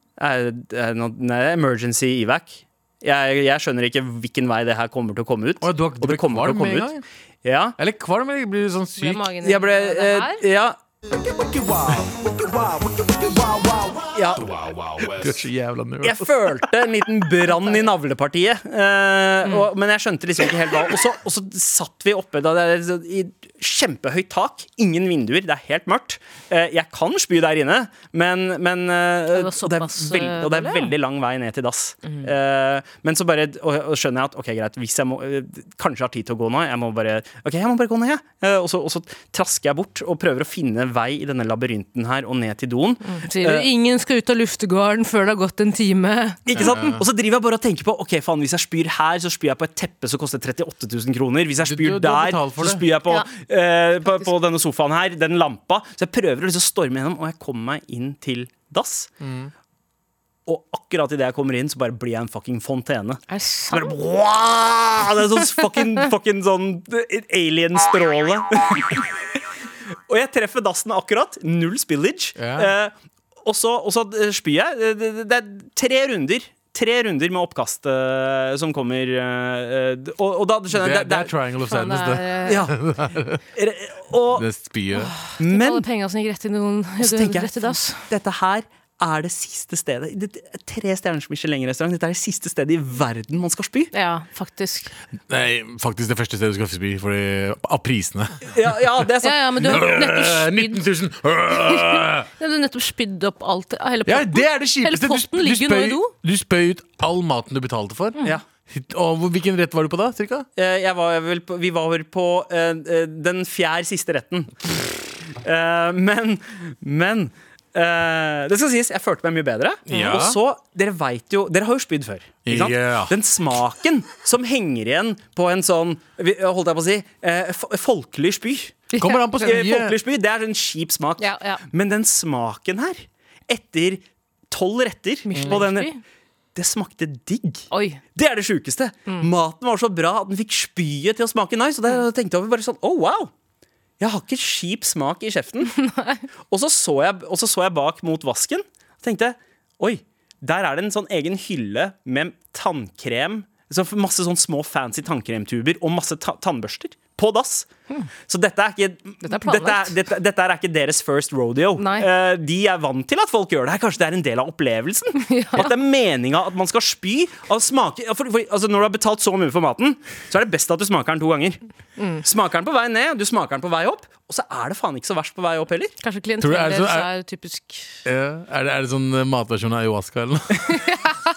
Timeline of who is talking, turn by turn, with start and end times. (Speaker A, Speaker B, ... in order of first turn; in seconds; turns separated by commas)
Speaker A: 0.2-7.8, Speaker B: 5.6-7.0, Speaker B: 7.8-9.3, Speaker C: 9.0-10.4, Speaker A: 9.4-10.8, Speaker A: 11.5-12.1, Speaker A: 12.6-13.0, Speaker A: 13.9-14.6, Speaker B: 14.3-16.2, Speaker A: 16.0-43.7, Speaker C: 29.3-30.9, Speaker C: 43.0-46.6, Speaker A: 46.5-59.1, Speaker B: 46.6-47.0, Speaker B: 51.6-52.8, Speaker B: 59.2-59.5, Speaker A: 60.5-69.4, Speaker C: 63.3-63.9, Speaker A: 70.1-72.9, Speaker B: 72.4-72.7, Speaker A: 73.4-81.3, Speaker B: 80.7-83.4, Speaker C: 81.6-82.7, Speaker A: 82.5-82.8, Speaker A: 83.5-84.5, Speaker B: 84.3-85.1, Speaker C: 85.0-88.0, Speaker A: 85.4-85.8, Speaker A: 87.0-93.9, Speaker C: 93.9-94.9, Speaker B: 95.3-98.6, Speaker A: 98.5-99.9, Speaker C: 99.2-100.8, Speaker B: 99.6-102.3, Speaker C: 101.5-106.1, Speaker B: 104.1-110.5, Speaker A: 110.6-135.9, Speaker B: 119.9-120.4, Speaker B: 122.5-123.1, Speaker C: 128.9-129.5, Speaker B: 129.0-130.0, Speaker C: 131.2-131.6, Speaker C: 135.3-136.0, Speaker A: 136.6-143.3, Speaker C: 137.7-138.0, Speaker A: 144.0-145.8, Speaker C: 145.7-146.2, Speaker A: 146.5-157.7, Speaker A: 158.3-171.6, Speaker C: 159.2-159.9, Speaker C: 161.8-162.1, Speaker C: 165.2-165.7, Speaker C: 172.0-172.2, Speaker A: 172.2-175.9, Speaker C: 176.0-178.0, Speaker B: 176.4-177.1, Speaker B: 178.1-180.9, Speaker C: 180.7-181.2